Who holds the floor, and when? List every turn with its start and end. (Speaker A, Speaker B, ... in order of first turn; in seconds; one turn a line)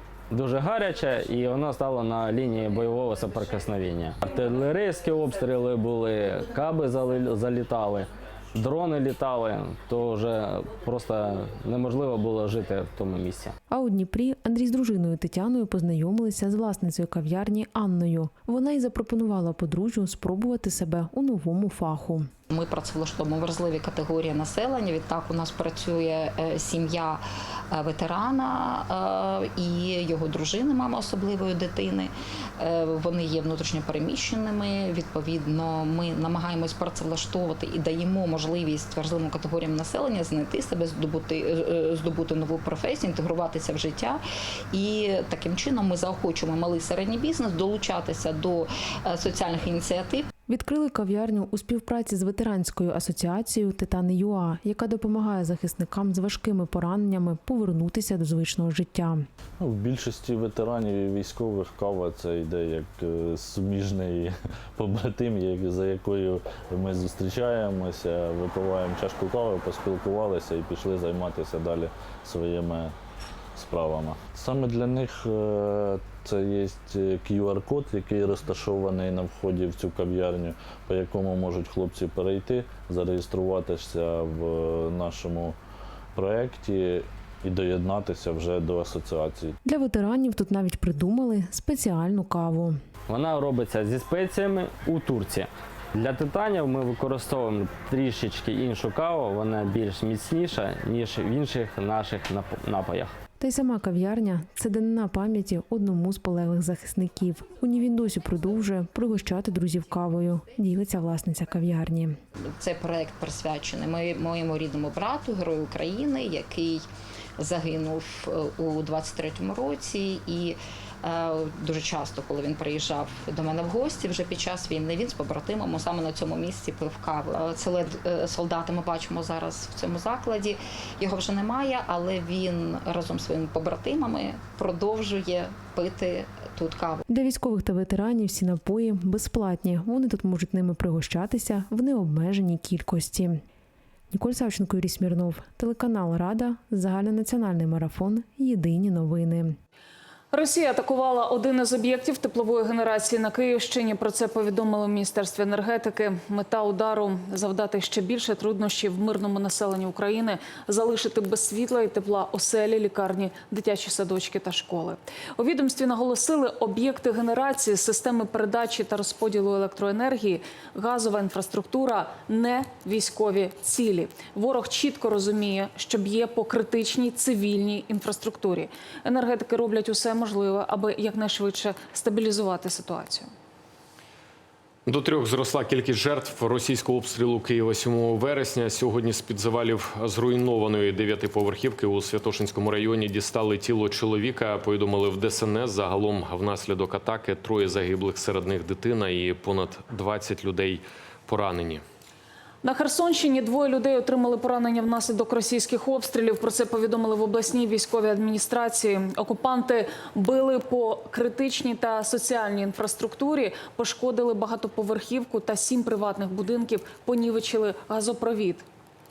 Speaker A: 0.3-13.5
Speaker B: 13.7-22.3
Speaker C: 22.5-44.2
Speaker C: 44.7-50.3
Speaker B: 50.5-59.3
Speaker D: 59.6-72.9
Speaker D: 73.5-85.6
Speaker D: 86.1-89.6
Speaker B: 89.6-92.8
Speaker A: 93.1-103.1
Speaker B: 103.4-112.2
Speaker C: 112.5-116.8
Speaker C: 117.4-137.0
Speaker B: 137.1-143.4
Speaker B: 144.1-149.6
Speaker E: 150.3-183.3
Speaker F: 184.8-201.8
Speaker E: 202.6-218.6